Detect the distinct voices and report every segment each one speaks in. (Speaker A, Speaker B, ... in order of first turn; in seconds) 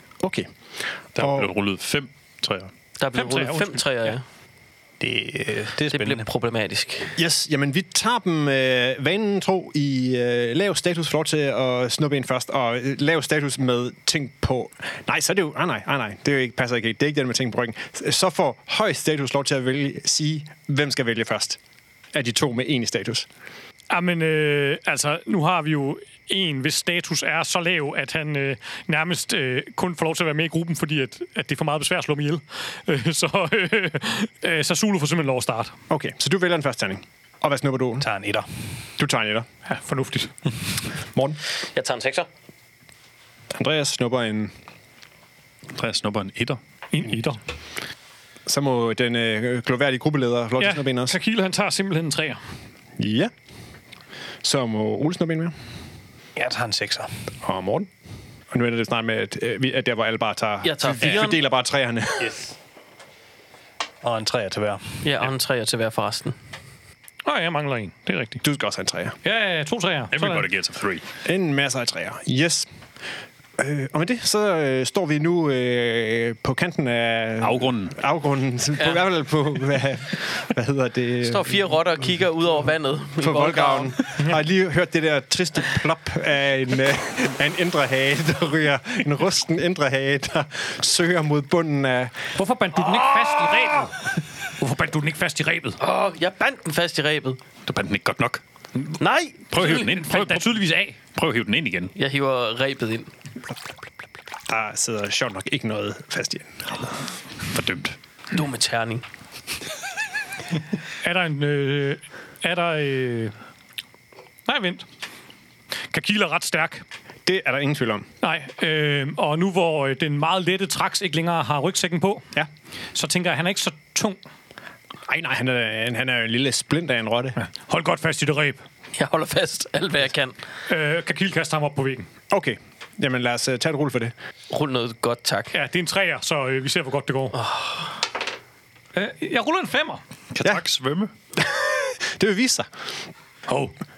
Speaker A: 0.2-0.5, 1.1-1.5, 7.2-21.6, 22.1-23.3, 35.9-38.1, 39.0-39.5, 41.1-41.4, 43.5-44.5, 48.5-51.2, 53.0-53.3, 54.4-55.5, 57.4-57.9, 58.5-62.4, 68.4-69.2, 71.2-72.7, 73.6-81.6, 83.2-92.3, 104.5-107.1, 117.3-118.1, 125.1-127.4, 132.3-134.1, 141.4-142.7
Speaker B: 1.2-2.7, 45.7-46.6, 70.1-71.0, 77.4-78.0, 97.7-98.4, 99.5-101.9, 107.5-108.0, 140.3-141.1
Speaker C: 3.0-4.2, 5.9-7.2, 41.7-42.3, 60.6-61.4, 65.0-66.3, 81.2-84.0, 95.8-97.4, 99.0-99.6, 102.0-103.1, 108.3-109.0, 128.9-130.4, 134.5-135.6, 137.3-137.9
Speaker D: 3.1-4.1, 23.9-35.7, 39.7-40.3, 46.9-47.4, 50.6-52.4, 67.2-68.4, 69.2-70.5, 92.3-95.8, 99.6-101.0, 111.0-113.3, 114.5-114.9, 115.9-116.8, 118.2-122.3, 122.9-124.2, 127.5-128.6, 130.7-132.1, 135.5-137.4, 138.9-140.0, 143.5-143.7
Speaker E: 5.0-6.2, 38.0-38.5, 56.4-57.1, 62.2-62.5, 64.0-65.0